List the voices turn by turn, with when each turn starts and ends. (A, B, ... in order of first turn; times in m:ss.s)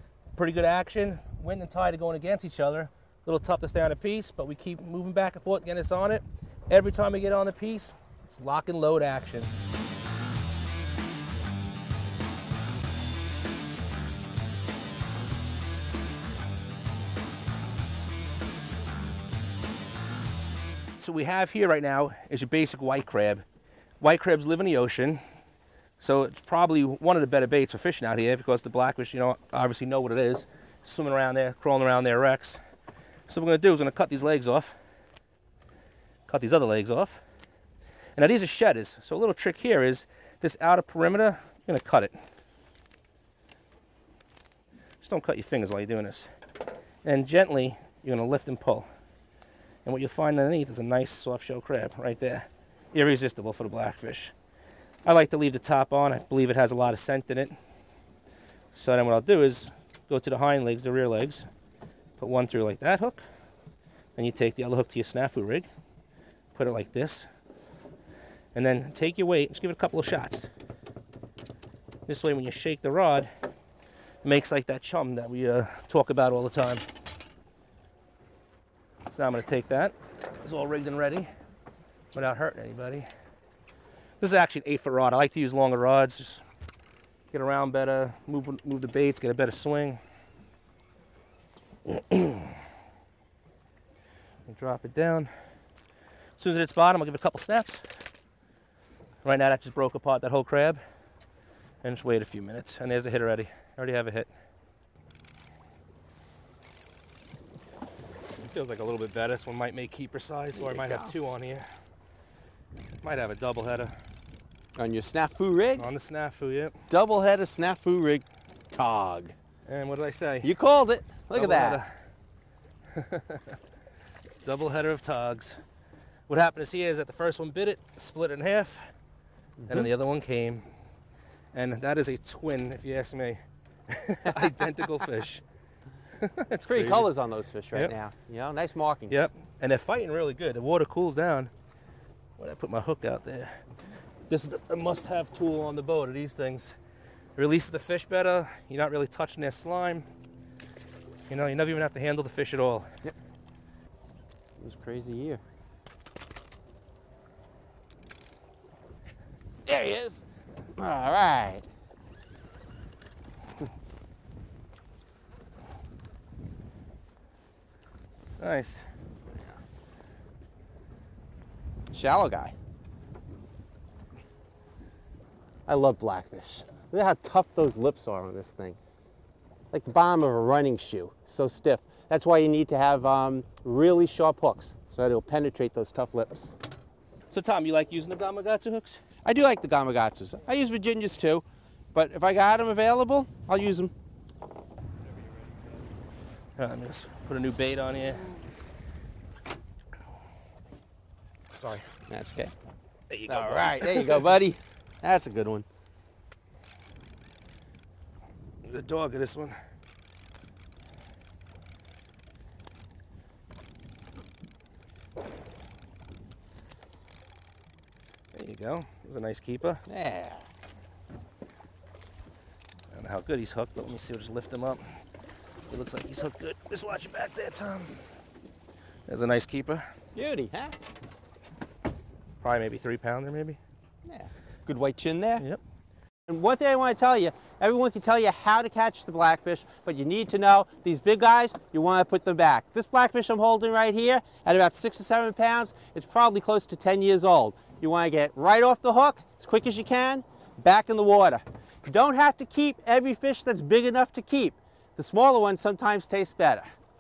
0:00.3-0:09.5 A
0:21.0-0:23.4 A
0:24.0-0:25.2 A
0:26.0-0:32.6 A
0:33.3-0:34.8 A
0:36.2-0:37.2 A
0:38.2-0:42.1 A
0:45.0-0:46.3 A
0:47.0-0:48.9 A
0:49.8-0:54.3 A
0:55.0-0:57.5 A
0:58.7-1:01.5 A
1:02.2-1:03.2 A
1:04.2-1:05.7 A
1:06.5-1:07.3 A
1:08.5-1:10.5 A
1:12.1-1:13.3 A
1:14.2-1:16.8 A
1:19.1-1:21.3 A
1:22.1-1:23.0 A
1:24.2-1:26.4 A
1:27.3-1:30.0 A
1:31.8-1:32.6 A
1:34.4-1:35.3 A
1:36.4-1:37.8 A
1:39.2-1:40.8 A
1:41.8-1:44.3 A
1:48.4-1:51.7 A
1:50.5-1:51.1 B
1:53.0-1:53.9 A
1:54.8-1:55.9 B
1:55.8-1:56.8 A
1:56.9-1:59.3 B
1:59.7-2:00.5 A
2:00.4-2:01.8 B
2:01.3-2:01.9 A
2:02.9-2:03.6 A
2:04.4-2:05.6 A
2:06.3-2:08.9 A
2:09.6-2:09.9 B
2:09.7-2:10.6 A
2:11.5-2:15.4 A
2:16.2-2:17.1 A
2:16.7-2:19.3 B
2:19.1-2:21.5 A
2:22.4-2:23.6 A
2:24.3-2:26.8 A
2:27.4-2:30.0 A
2:31.3-2:32.9 A
2:34.6-2:35.4 B
2:39.6-2:40.2 B
2:40.8-2:41.7 B
2:48.4-2:48.9 A
2:51.9-2:52.5 B
2:55.7-2:58.8 B
2:59.7-3:06.6 B
3:07.3-3:09.0 A
3:09.2-3:13.9 B
3:16.6-3:18.3 A
3:21.9-3:22.5 B
3:23.1-3:24.3 A
3:23.3-3:25.6 B
3:28.6-3:29.6 A
3:38.3-3:39.8 A
3:39.9-3:40.4 B
3:42.9-3:44.8 A
3:45.7-3:48.0 A
3:49.1-3:49.9 A
3:50.1-3:50.7 B
3:52.4-3:53.6 A
3:54.0-3:55.4 B
3:56.3-4:16.6 B